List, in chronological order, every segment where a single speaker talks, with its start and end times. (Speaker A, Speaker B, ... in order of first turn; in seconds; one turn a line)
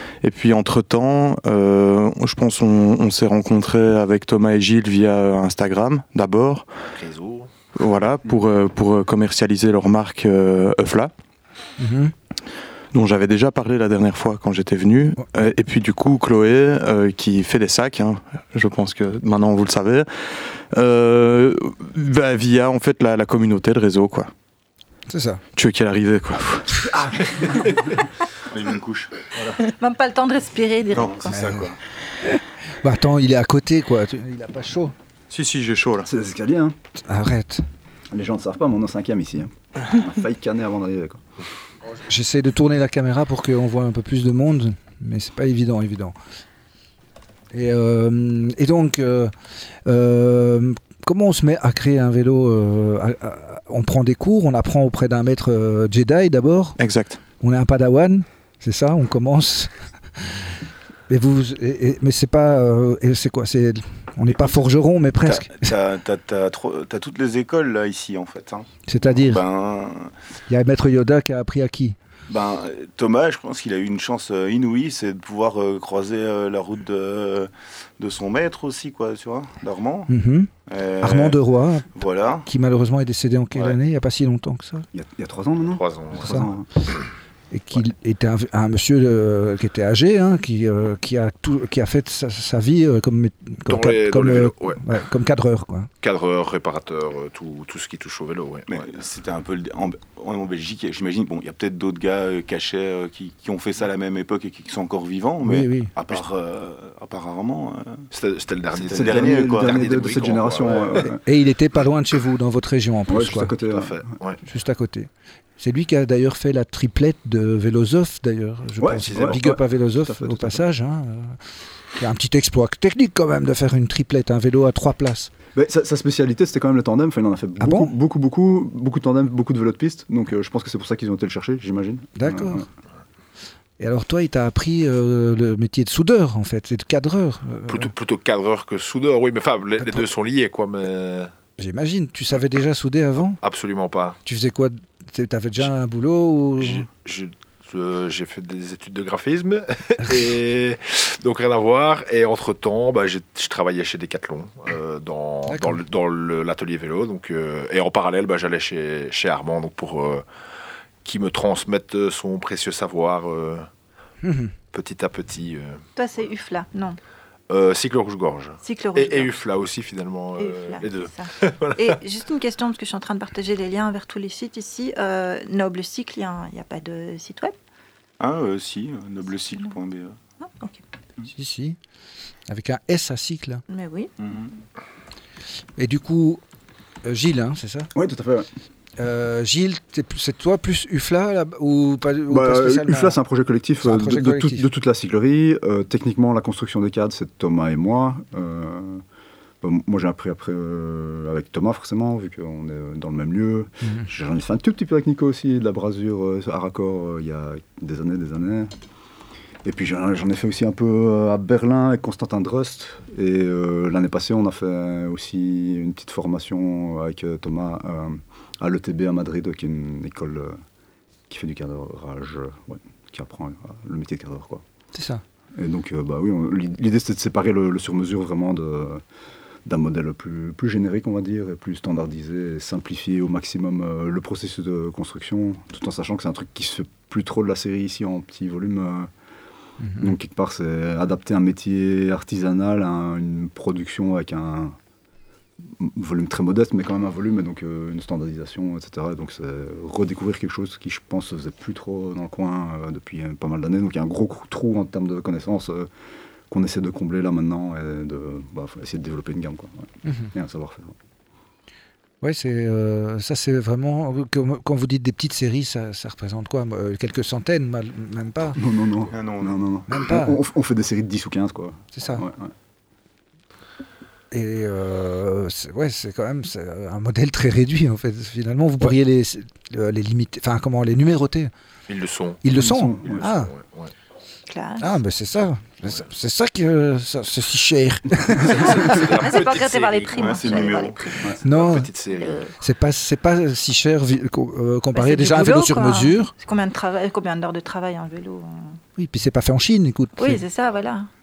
Speaker A: 0.2-6.7
Speaker B: 6.9-7.5
Speaker A: 7.8-11.1
Speaker C: 11.8-12.1
Speaker A: 12.9-24.3
Speaker C: 25.1-25.4
Speaker A: 25.5-26.9
Speaker D: 28.5-29.1
Speaker E: 29.8-31.5
Speaker D: 30.9-31.2
Speaker A: 31.3-31.7
Speaker C: 31.3-31.7
Speaker C: 32.3-35.0
Speaker A: 35.3-36.1
Speaker F: 36.1-36.8
Speaker C: 37.0-37.7
Speaker F: 38.1-41.2
Speaker C: 42.0-46.2
Speaker C: 47.5-49.3
Speaker C: 49.9-56.8
Speaker A: 56.8-57.2
Speaker C: 57.4-60.5
Speaker C: 61.1-65.7
Speaker D: 64.3-64.6
Speaker D: 65.2-70.1
Speaker C: 68.9-69.4
Speaker C: 70.5-72.0
Speaker D: 72.3-80.1
Speaker C: 80.1-80.5
Speaker D: 80.7-81.4
Speaker C: 81.0-81.9
Speaker D: 82.0-82.5
Speaker C: 82.5-84.9
Speaker F: 84.9-86.7
Speaker B: 85.7-86.5
Speaker C: 86.2-86.5
Speaker C: 87.5-95.9
Speaker B: 93.7-94.8
Speaker B: 96.0-98.9
Speaker D: 98.7-108.1
Speaker C: 105.4-105.9
Speaker B: 108.1-111.1
Speaker D: 108.7-110.8
Speaker F: 108.9-111.2
Speaker C: 111.2-113.5
Speaker F: 113.1-114.0
Speaker B: 113.7-114.4
Speaker C: 114.5-121.4
Speaker F: 118.8-120.6
Speaker B: 119.1-119.4
Speaker C: 122.0-125.3
Speaker F: 125.5-132.7
Speaker C: 127.6-127.9
Speaker C: 132.2-132.7
Speaker C: 133.8-137.9
Speaker B: 137.7-141.3
Speaker C: 141.6-143.4
Speaker B: 143.4-144.2
Speaker C: 144.3-146.9
Speaker B: 146.6-160.2
Speaker C: 155.5-155.8
Speaker B: 161.0-163.7
Speaker C: 164.2-164.5
Speaker B: 164.7-165.8
Speaker E: 166.0-167.0
Speaker B: 167.5-172.0
Speaker E: 168.6-169.3
Speaker E: 170.4-177.5
Speaker D: 178.2-180.2
Speaker E: 180.4-180.8
Speaker C: 181.3-181.8
Speaker C: 182.5-183.6
Speaker E: 183.7-184.1
Speaker D: 184.2-184.5
Speaker C: 185.8-186.4
Speaker C: 187.0-187.9
Speaker F: 187.9-188.5
Speaker C: 189.0-193.2
Speaker F: 192.3-199.0
Speaker C: 193.8-194.7
Speaker F: 199.6-208.7
Speaker C: 203.8-204.1
Speaker F: 209.7-220.6
Speaker F: 221.3-224.6
Speaker C: 224.9-225.2
Speaker F: 225.6-229.0
Speaker F: 229.7-239.1
Speaker C: 239.8-240.2
Speaker F: 240.0-244.8
Speaker F: 245.6-255.9
Speaker F: 256.5-260.9
Speaker C: 260.0-260.3
Speaker C: 262.2-268.6
Speaker F: 268.6-272.5
Speaker D: 269.1-269.6
Speaker C: 269.9-270.4
Speaker C: 271.9-272.3
Speaker C: 274.3-281.5
Speaker B: 281.9-282.4
Speaker C: 282.4-283.5
Speaker F: 282.5-283.3
Speaker B: 283.0-283.9
Speaker E: 284.5-284.9
Speaker C: 284.8-289.0
Speaker B: 288.3-292.4
Speaker E: 288.6-291.2
Speaker D: 290.1-291.1
Speaker C: 291.4-291.9
Speaker E: 292.1-292.5
Speaker C: 292.6-296.3
Speaker E: 294.9-298.8
Speaker C: 299.0-300.4
Speaker E: 300.2-301.1